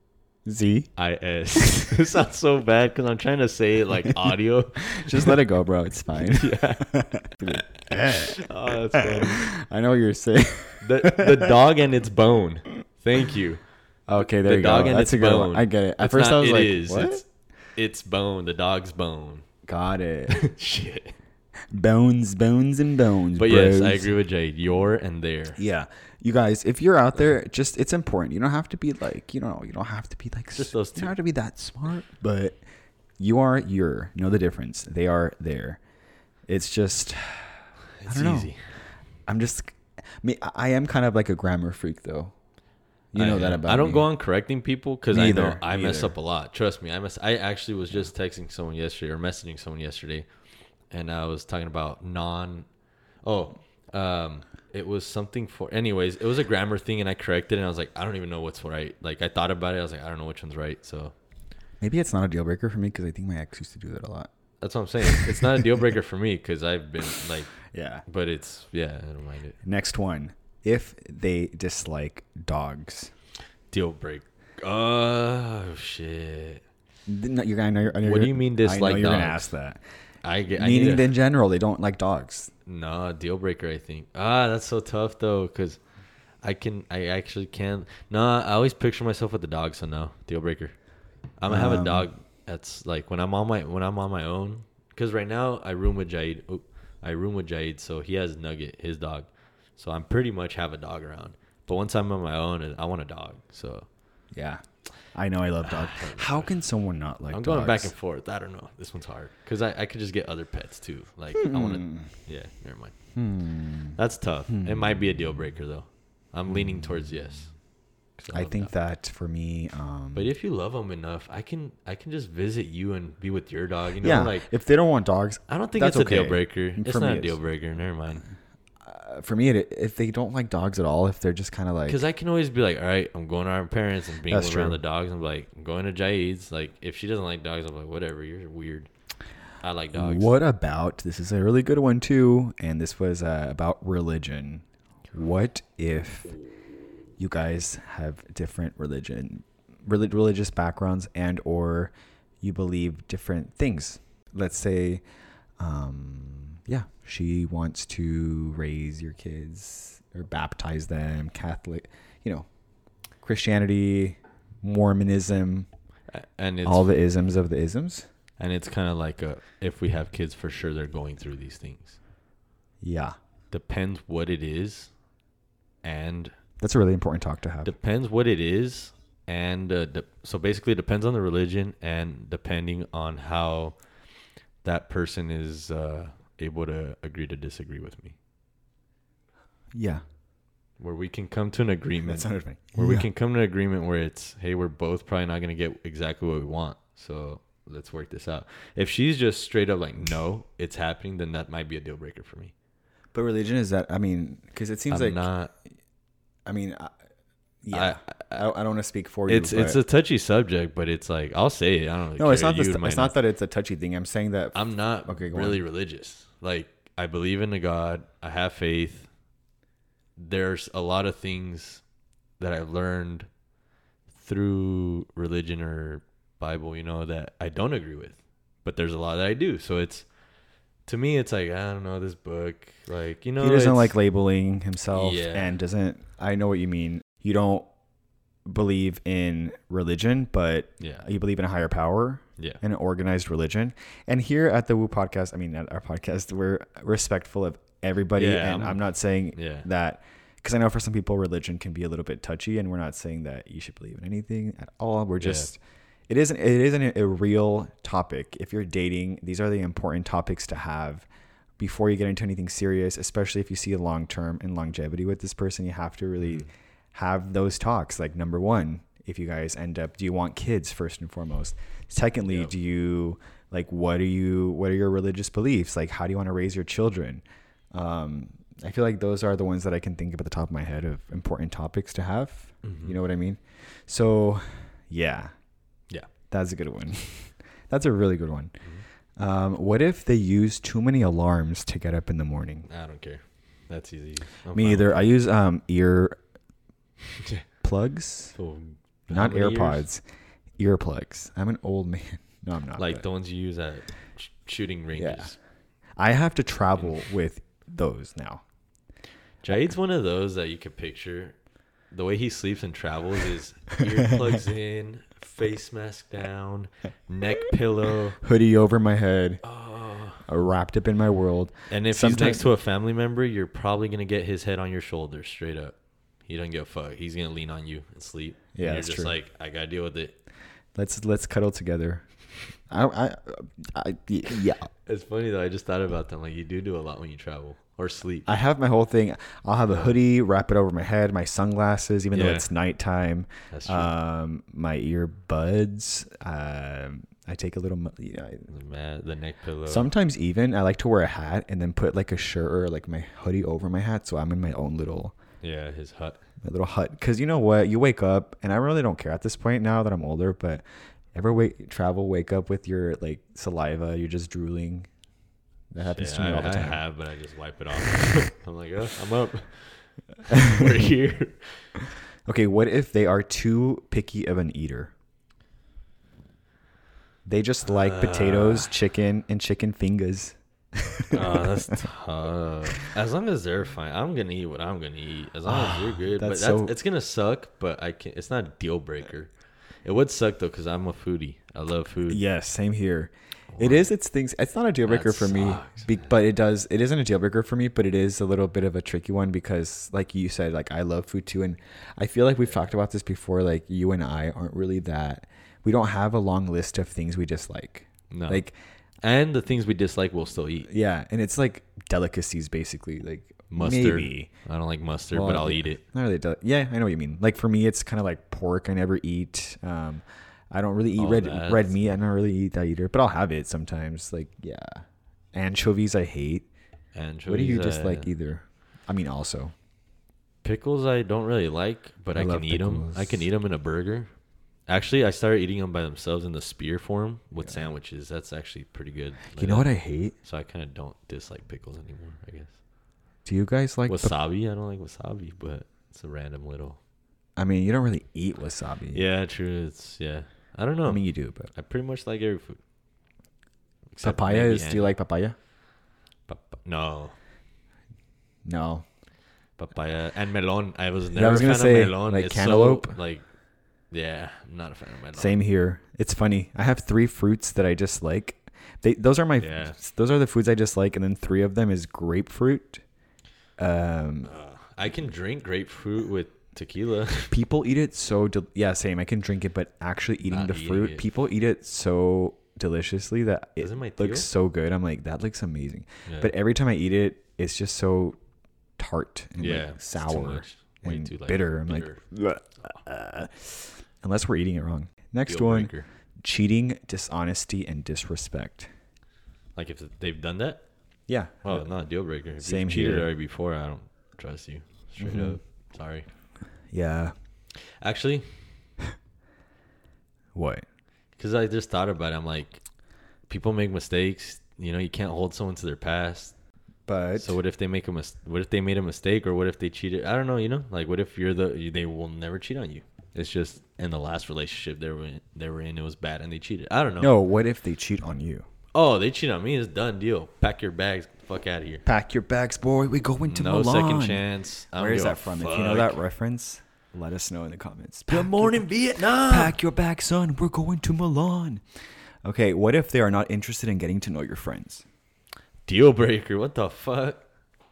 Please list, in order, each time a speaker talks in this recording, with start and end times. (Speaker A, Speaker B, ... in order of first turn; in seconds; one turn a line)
Speaker A: 0.5-0.9
Speaker B: 0.9-5.3
Speaker A: 4.9-8.5
Speaker B: 6.3-6.9
Speaker B: 7.4-9.5
Speaker A: 9.0-11.5
Speaker B: 10.8-13.6
Speaker A: 14.1-17.2
Speaker B: 14.2-19.4
Speaker A: 19.6-20.4
Speaker B: 20.3-21.1
Speaker A: 21.7-24.1
Speaker B: 23.4-25.6
Speaker A: 25.6-32.6
Speaker B: 30.5-31.1
Speaker A: 33.2-35.8
Speaker A: 36.5-38.5
Speaker B: 38.0-38.6
Speaker A: 39.2-42.3
Speaker A: 43.1-44.1
Speaker B: 43.1-50.2
Speaker A: 45.1-46.1
Speaker B: 50.9-52.7
Speaker B: 53.2-61.1
Speaker A: 61.8-64.3
Speaker B: 64.6-67.5
Speaker A: 65.1-65.3
Speaker A: 67.6-68.0
Speaker B: 68.1-69.6
Speaker A: 69.6-73.1
Speaker B: 73.7-76.6
Speaker A: 77.1-79.8
Speaker B: 78.0-79.5
Speaker B: 80.2-81.1
Speaker A: 80.5-82.5
Speaker B: 82.7-85.8
Speaker B: 86.4-90.7
Speaker B: 91.4-103.9
Speaker A: 91.5-92.1
Speaker A: 104.3-107.9
Speaker B: 105.6-106.5
Speaker B: 107.3-112.9
Speaker A: 111.3-112.1
Speaker A: 113.1-114.0
Speaker B: 114.0-117.5
Speaker A: 114.5-115.1
Speaker A: 116.5-117.0
Speaker B: 118.2-118.7
Speaker A: 118.3-120.3
Speaker B: 120.1-124.5
Speaker A: 124.0-127.4
Speaker B: 125.5-128.2
Speaker A: 128.8-132.0
Speaker B: 131.8-138.9
Speaker A: 134.3-134.8
Speaker B: 139.6-140.3
Speaker A: 139.9-146.4
Speaker A: 147.2-155.0
Speaker A: 155.6-162.5
Speaker A: 163.2-165.7
Speaker B: 166.1-167.0
Speaker A: 166.6-168.1
Speaker B: 168.4-172.0
Speaker A: 172.8-173.1
Speaker B: 173.5-174.9
Speaker B: 175.8-176.3
Speaker A: 176.6-177.7
Speaker B: 177.6-183.8
Speaker B: 184.6-188.2
Speaker A: 189.7-190.0
Speaker B: 190.8-202.5
Speaker A: 192.1-193.1
Speaker A: 203.1-205.2
Speaker B: 204.9-205.5
Speaker A: 206.4-206.9
Speaker A: 207.6-209.8
Speaker B: 207.7-208.4
Speaker B: 209.3-213.1
Speaker A: 212.2-215.6
Speaker B: 214.5-219.1
Speaker B: 220.2-221.8
Speaker B: 222.4-223.3
Speaker B: 224.1-230.1
Speaker B: 230.8-233.9
Speaker A: 233.4-237.7
Speaker B: 234.9-235.6
Speaker A: 238.4-261.1
Speaker B: 240.8-241.0
Speaker B: 248.1-248.8
Speaker B: 249.3-249.7
Speaker B: 255.2-255.5
Speaker A: 261.6-285.3
Speaker B: 266.2-266.5
Speaker B: 272.3-272.5
Speaker B: 282.6-282.9
Speaker A: 286.3-288.5
Speaker A: 289.2-292.7
Speaker B: 292.7-295.0
Speaker A: 294.5-296.2
Speaker A: 297.6-298.4
Speaker B: 298.3-299.9
Speaker A: 299.1-300.0
Speaker A: 300.6-303.0
Speaker B: 302.8-305.4
Speaker A: 304.9-305.3
Speaker A: 306.0-308.4
Speaker B: 309.4-311.4
Speaker B: 311.9-318.2
Speaker A: 318.2-319.4
Speaker B: 319.4-320.2
Speaker A: 320.2-322.5
Speaker B: 321.7-325.8
Speaker B: 326.3-330.1
Speaker A: 328.6-329.1
Speaker A: 330.7-332.0
Speaker A: 332.7-334.7
Speaker B: 334.9-338.3
Speaker A: 338.2-348.5
Speaker B: 342.1-342.5
Speaker B: 343.5-343.9
Speaker B: 348.5-349.9
Speaker A: 349.6-355.1
Speaker B: 355.4-356.2
Speaker A: 356.4-364.9
Speaker A: 365.7-366.8
Speaker B: 365.8-371.7
Speaker A: 372.2-374.9
Speaker A: 377.2-381.7
Speaker B: 377.6-378.7
Speaker B: 381.1-389.3
Speaker A: 385.4-386.7
Speaker B: 389.8-392.2
Speaker A: 392.1-408.5
Speaker B: 393.5-393.9
Speaker B: 394.9-396.1
Speaker B: 408.1-408.4
Speaker B: 409.0-410.7
Speaker A: 410.7-414.3
Speaker B: 413.5-415.8
Speaker A: 415.1-426.5
Speaker B: 420.9-421.9
Speaker B: 426.9-428.1
Speaker A: 427.2-429.5
Speaker B: 430.4-434.1
Speaker A: 432.1-433.2
Speaker B: 434.7-442.6
Speaker A: 437.4-437.6
Speaker A: 439.4-440.1
Speaker A: 443.2-444.1
Speaker B: 443.9-446.8
Speaker A: 447.4-449.0
Speaker B: 448.9-452.6
Speaker A: 450.9-451.5
Speaker B: 453.9-454.9
Speaker A: 454.0-455.4
Speaker B: 456.3-457.1
Speaker A: 458.4-458.8
Speaker B: 459.6-463.2
Speaker A: 461.1-463.0
Speaker B: 463.9-465.3
Speaker A: 465.1-472.8
Speaker B: 469.4-469.8
Speaker A: 473.6-474.3
Speaker B: 474.2-477.3
Speaker A: 477.3-488.2
Speaker B: 480.3-481.1
Speaker B: 483.6-484.3
Speaker B: 486.1-486.3
Speaker A: 488.8-498.7
Speaker B: 489.4-492.0
Speaker B: 495.3-495.9
Speaker B: 499.6-500.6
Speaker A: 501.1-501.6
Speaker B: 501.4-506.1
Speaker A: 502.4-503.1
Speaker A: 505.0-505.4
Speaker A: 506.7-507.1
Speaker B: 507.5-508.4
Speaker A: 510.3-510.6
Speaker B: 511.2-512.6
Speaker B: 513.3-516.3
Speaker A: 516.9-517.4
Speaker B: 517.1-527.1
Speaker A: 527.0-528.5
Speaker B: 528.7-531.8
Speaker A: 531.8-541.6
Speaker B: 533.2-536.0
Speaker B: 538.1-539.6
Speaker A: 542.2-544.8
Speaker B: 545.7-547.2